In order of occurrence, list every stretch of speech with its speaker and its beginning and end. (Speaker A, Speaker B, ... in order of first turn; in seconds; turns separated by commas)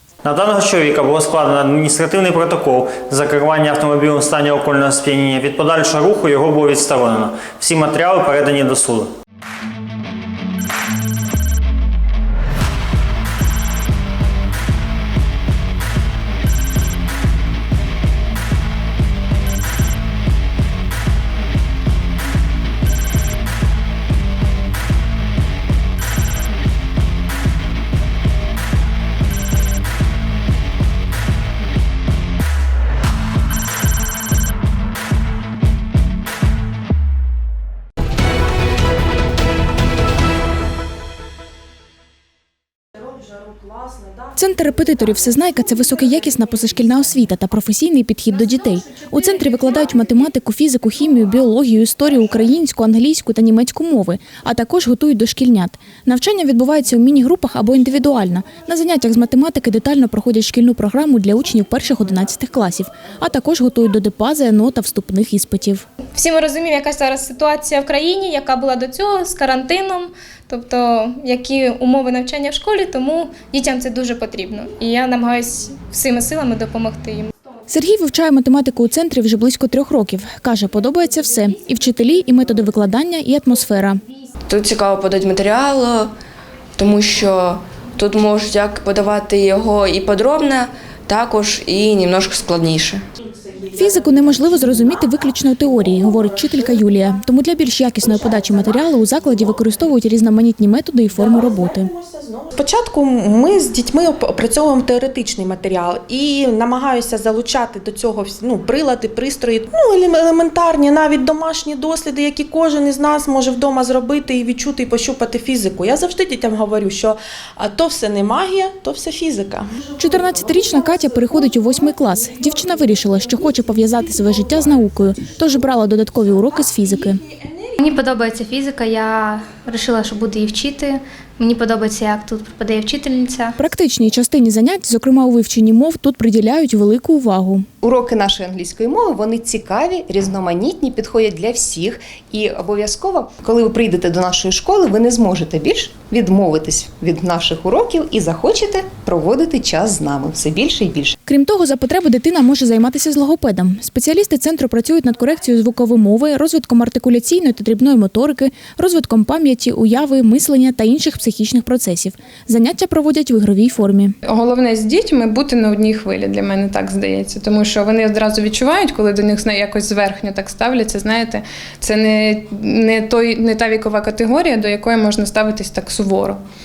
Speaker A: 0.2-9.1, Speaker B: 44.4-65.8, Speaker C: 66.1-77.3, Speaker B: 77.7-84.0, Speaker D: 84.4-86.1, Speaker D: 86.8-93.0, Speaker B: 93.7-101.9, Speaker E: 102.0-119.6, Speaker B: 120.0-127.2, Speaker F: 127.9-131.0, Speaker G: 128.1-129.3, Speaker G: 129.8-130.8, Speaker G: 131.4-133.4, Speaker F: 132.0-133.4, Speaker B: 133.6-137.7, Speaker H: 137.8-151.1, Speaker B: 151.2-164.1, Speaker F: 164.3-176.4